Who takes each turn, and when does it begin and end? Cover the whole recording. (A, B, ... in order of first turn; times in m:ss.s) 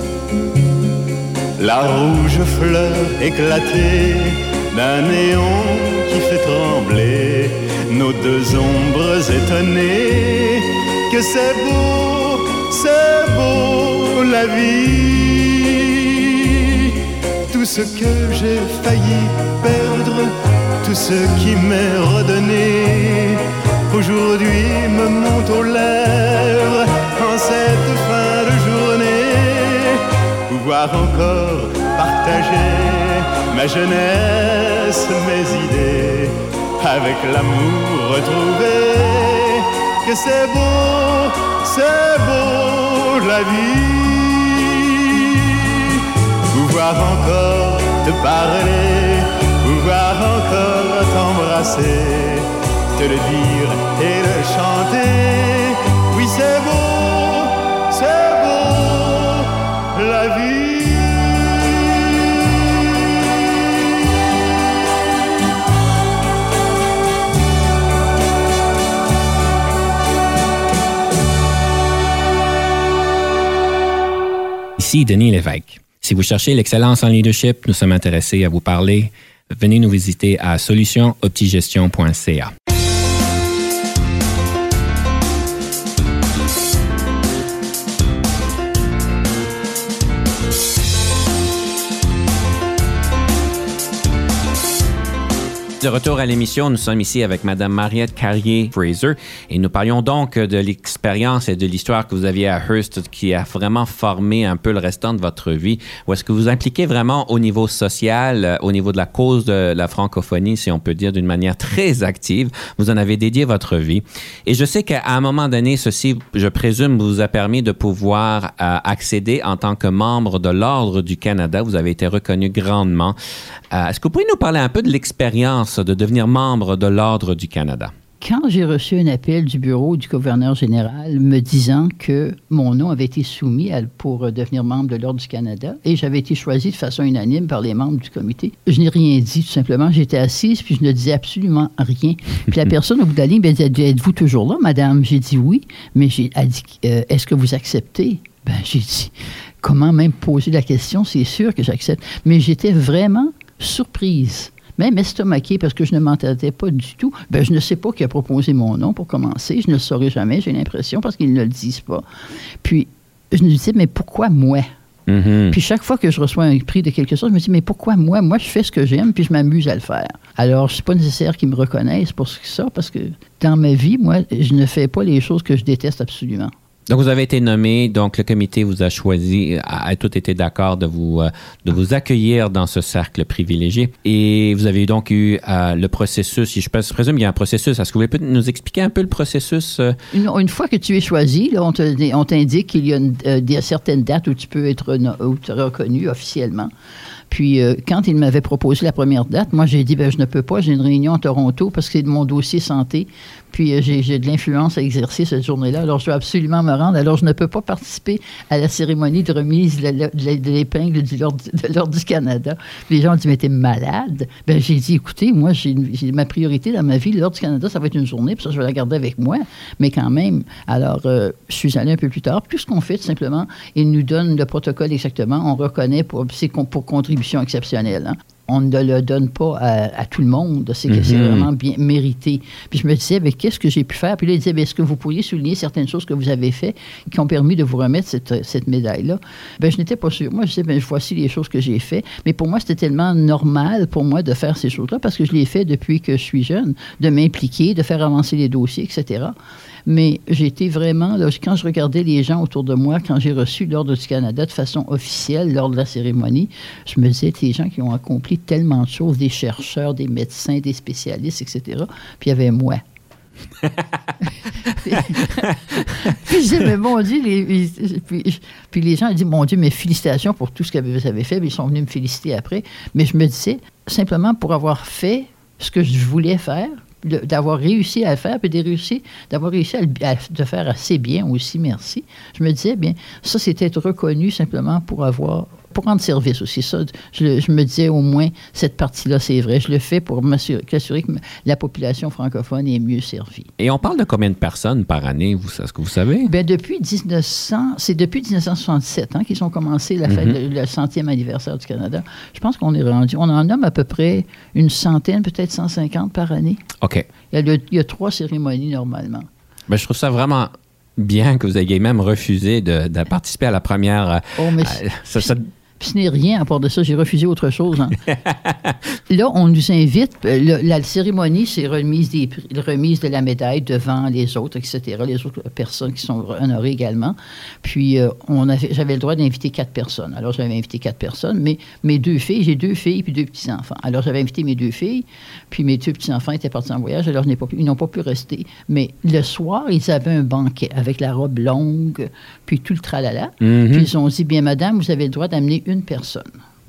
0:01.6-1:02.2 A
1:14.8-1:22.5 B
1:35.8-2:03.2 B
2:03.7-2:07.9 B
2:08.2-2:42.0 C
2:42.6-2:44.7 C
2:45.1-2:45.6 B
2:45.5-2:56.5 C
2:56.9-3:10.0 B
3:10.1-3:16.7 C
3:17.3-4:09.3 C
3:50.9-3:51.5 B
4:09.8-4:22.8 C
4:24.2-4:53.5 C
4:53.6-4:56.3 B
4:56.3-5:06.6 C
5:00.1-5:00.4 B
5:06.8-5:07.0 B
5:07.3-5:09.3 C
5:09.7-5:15.4 B
5:14.3-5:18.0 C
5:18.1-5:18.8 B
5:19.1-5:46.4 C
5:43.4-5:43.9 B